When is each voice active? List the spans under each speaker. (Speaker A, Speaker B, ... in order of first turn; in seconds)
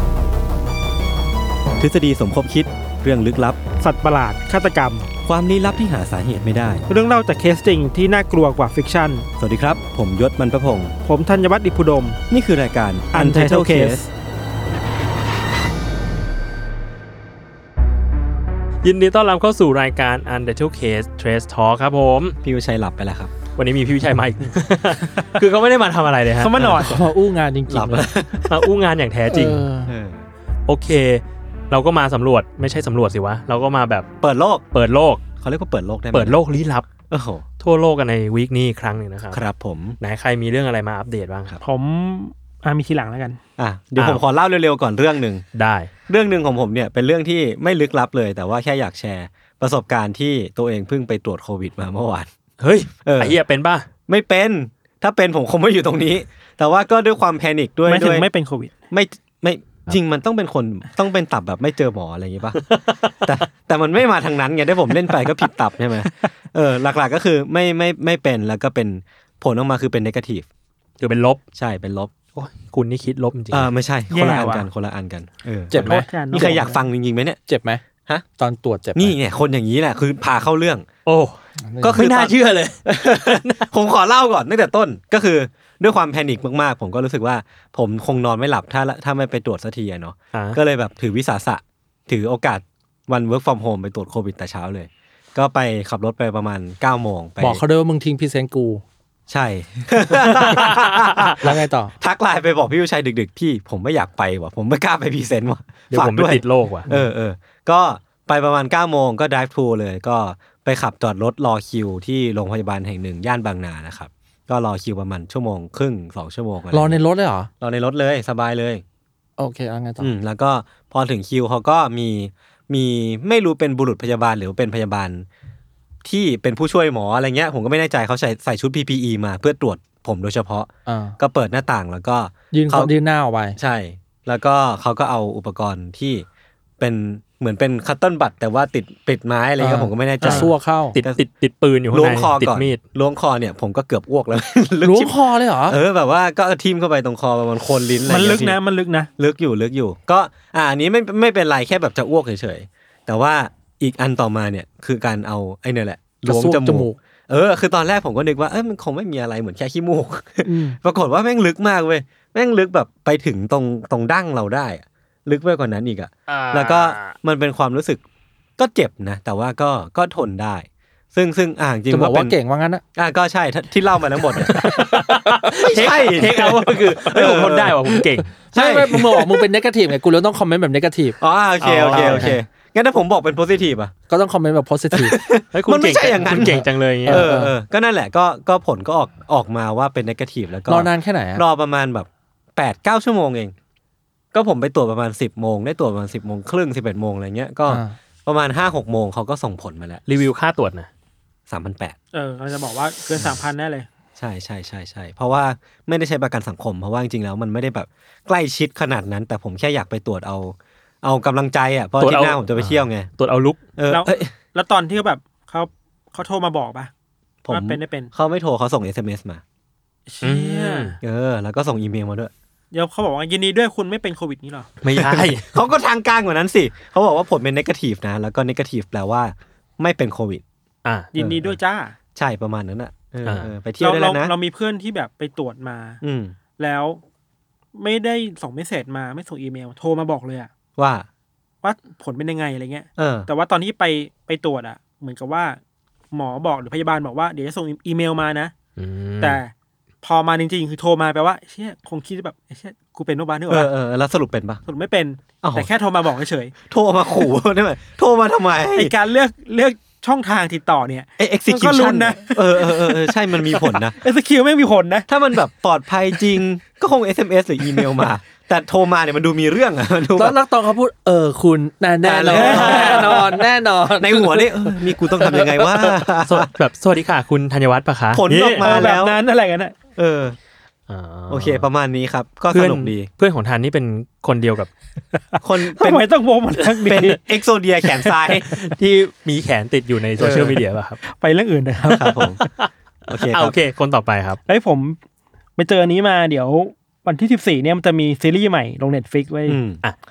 Speaker A: 1.8-3.6, 5.2-6.8, 9.4-10.9, 12.3-14.0, 22.4-23.3, 27.7-28.7, 29.9-30.3, 34.2-34.6, 35.4-36.4, 37.1-37.5, 39.3-40.0, 43.6-45.5, 46.1-52.3, 53.0-53.4, 54.1-58.3, 58.9-70.5, 71.5-72.1, 73.5-77.4, 79.0-80.9, 81.8-97.6, 99.3-117.0, 117.6-118.8, 120.0-125.3, 126.0-132.9, 133.6-136.2, 136.8-141.2, 141.9-148.6, 149.2-168.0, 168.6-172.3, 172.9-174.6, 175.6-178.0, 178.5-179.4, 181.2-183.9, 184.9-193.5, 194.3-200.0, 201.5-202.0, 204.2-213.1, 213.8-214.3, 217.4-219.4, 221.0-222.3, 224.9-230.4, 231.2-231.6, 232.2-234.3, 236.0-236.4, 240.8-241.1, 243.0-243.3, 253.5-254.6, 255.4-255.7, 256.7-258.9, 261.2-264.0, 265.1-270.4, 272.0-273.4, 274.0-276.5, 278.1-279.2, 280.0-280.4, 281.3-283.1, 285.4-286.1, 286.8-288.5, 290.2-290.6, 291.9-292.4, 293.1-293.6, 299.5-299.8
Speaker B: 3.8-5.1, 6.9-9.3, 11.1-12.2, 13.1-14.1, 26.4-27.0, 41.6-43.4, 57.9-58.7, 74.1-74.7, 75.9-76.8, 140.2-140.5, 148.1-149.1, 160.5-160.8, 202.1-203.9, 213.9-216.9, 217.5-218.1, 220.1-221.0, 222.7-224.7, 231.1-231.9, 233.8-236.0, 236.6-237.0, 237.7-240.5, 241.6-245.6, 246.1-248.5, 249.2-249.5, 250.0-253.7, 254.7-256.5, 258.8-265.1, 272.3-273.2, 278.6-279.8, 285.7-287.2, 291.0-292.3, 294.5-295.0, 295.6-299.6
Speaker C: 18.8-22.4, 23.6-26.8, 28.5-29.6, 30.7-34.1, 34.7-35.2, 36.1-36.9, 37.6-39.4, 40.0-41.6, 44.0-44.2, 45.5-45.9, 52.6-53.9, 62.7-63.3, 71.0-71.4, 72.3-73.7, 81.1-81.4, 81.9-83.7, 90.3-90.6, 100.5-101.3, 105.9-106.9, 141.0-142.8, 166.3-167.2, 174.4-178.3, 181.6-182.3, 185.5-187.2, 200.1-200.9, 212.0-213.7, 220.2-221.0, 224.8-225.5, 230.8-231.1, 233.2-233.5, 248.8-249.4, 276.2-278.7, 280.9-281.7, 282.5-284.7, 288.5-291.0, 291.8-294.4
Speaker D: 26.8-28.1, 29.3-29.9, 75.7-76.5, 77.5-77.8, 78.4-79.2, 81.6-82.0, 97.4-98.8, 101.4-101.9, 116.7-117.5, 119.4-120.1, 130.9-131.2, 132.5-133.6, 139.6-141.0, 144.8-145.8, 156.2-157.0, 171.9-172.8, 174.5-176.4, 178.4-181.2, 181.8-182.4, 184.1-185.2, 186.3-187.5, 190.7-191.4, 197.7-198.0, 270.2-275.7